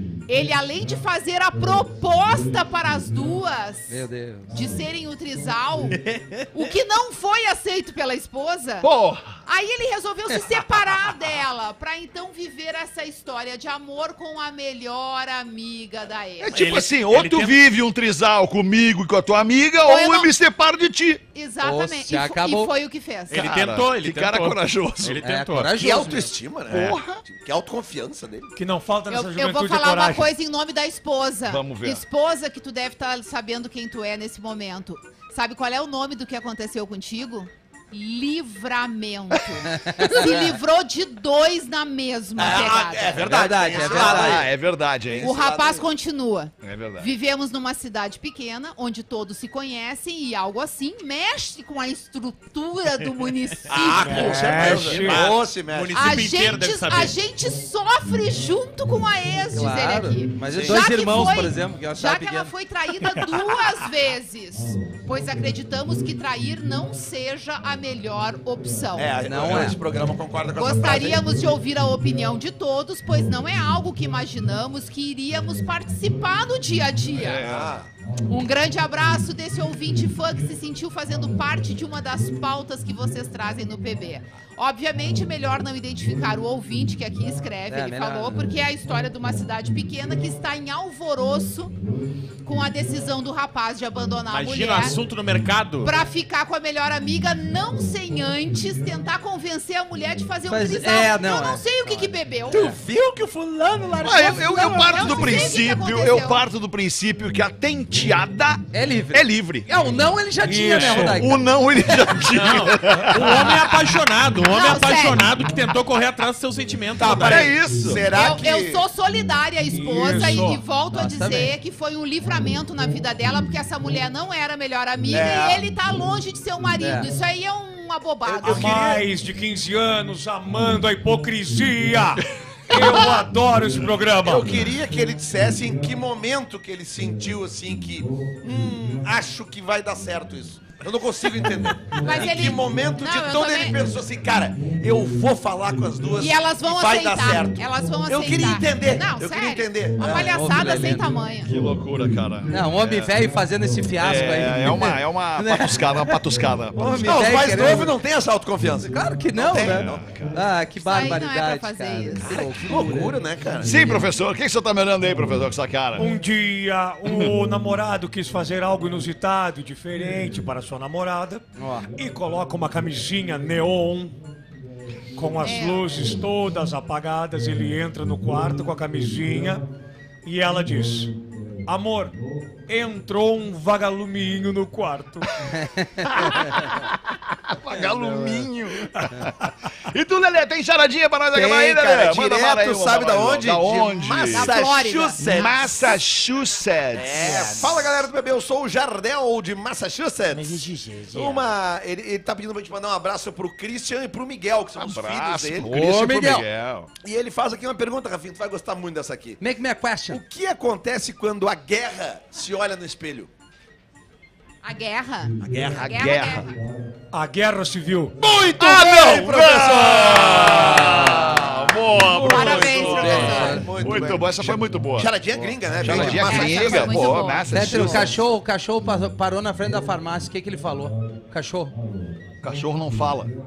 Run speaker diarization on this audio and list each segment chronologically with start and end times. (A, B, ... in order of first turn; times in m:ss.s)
0:00.3-0:04.0 A
0:03.9-0:04.5 B
0:04.5-0:06.0 A
0:05.9-0:06.5 C
0:06.5-0:08.9 A
0:08.8-0:09.4 D
0:09.4-0:16.6 A
0:16.4-0:21.2 D
0:16.5-0:17.6 C
0:19.8-0:20.3 A
0:21.3-0:23.5 A
0:21.6-0:22.7 B
0:23.3-0:25.7 C
0:23.3-0:25.3 D
0:25.2-0:26.3 B
0:25.8-0:28.5 E
0:26.7-0:27.2 D
0:28.5-0:30.3 F
0:29.1-0:43.9 A
0:31.5-0:32.0 D
0:39.6-0:40.5 B
0:42.4-0:44.5 E
0:43.2-0:45.3 D
0:43.2-0:44.4 B
0:45.1-0:45.9 E
0:45.2-0:54.7 A
0:46.6-0:47.1 D
0:53.7-0:56.3 E
0:53.7-0:57.2 C
0:54.0-0:55.3 F
0:55.9-1:09.2 A
0:59.5-1:02.5 B
1:00.5-1:00.8 E
1:09.0-1:11.2 E
1:09.2-1:09.8 B
1:10.5-1:17.5 A
1:17.1-1:17.8 D
1:17.4-1:17.9 E
1:18.3-1:31.8 A
1:27.7-1:28.4 B
1:32.4-1:35.0 A
1:34.3-1:35.9 C
1:35.8-1:42.8 A
1:40.4-1:42.8 B
1:42.5-1:45.4 E
1:44.0-1:49.7 D
1:44.0-1:46.4 A
1:48.7-1:51.4 B
1:50.4-1:51.2 F
1:50.6-1:53.8 D
1:52.3-1:57.5 C
1:54.4-1:55.5 A
1:57.0-1:58.8 E
1:57.1-1:58.1 D
1:58.1-2:08.8 A
1:59.7-2:00.6 F
2:00.9-2:01.5 B
2:05.1-2:05.6 E
2:06.8-2:07.1 B
2:08.2-2:09.0 E
2:08.4-2:14.7 F
2:14.2-2:30.3 E
2:22.0-2:23.8 A
2:26.2-2:31.5 A
2:30.0-2:31.1 B
2:31.4-2:33.1 D
2:32.5-2:36.2 B
2:34.0-2:37.7 D
2:36.7-2:37.9 B
2:37.0-2:40.0 E
2:38.9-2:43.1 B
2:39.4-2:40.5 D
2:40.8-2:42.5 A
2:42.2-2:44.0 E
2:43.6-2:46.1 D
2:46.0-2:54.2 F
2:47.0-2:47.3 D
2:51.6-2:51.9 B
2:55.1-2:59.6 F
2:55.4-2:55.9 A
3:00.2-3:01.1 F
3:01.6-3:02.1 F
3:02.7-3:05.3 F
3:05.5-3:06.6 B
3:06.1-3:14.6 D
3:11.3-3:15.6 E
3:13.9-3:15.3 A
3:15.2-3:17.7 D
3:16.9-3:25.7 E
3:24.7-3:26.9 D
3:25.7-3:26.5 B
3:27.0-3:29.4 E
3:29.4-3:30.2 B
3:30.1-3:33.3 E
3:34.6-3:36.6 A
3:35.4-3:35.8 E
3:35.5-3:36.5 D
3:37.1-3:38.2 F
3:38.2-3:47.1 E
3:38.6-3:45.1 D
3:40.9-3:41.4 B
3:42.1-3:43.6 A
3:42.9-3:43.6 B
3:45.3-3:46.2 B
3:45.8-3:48.2 D
3:46.1-3:48.1 A
3:47.5-3:51.7 B
3:52.4-3:53.3 D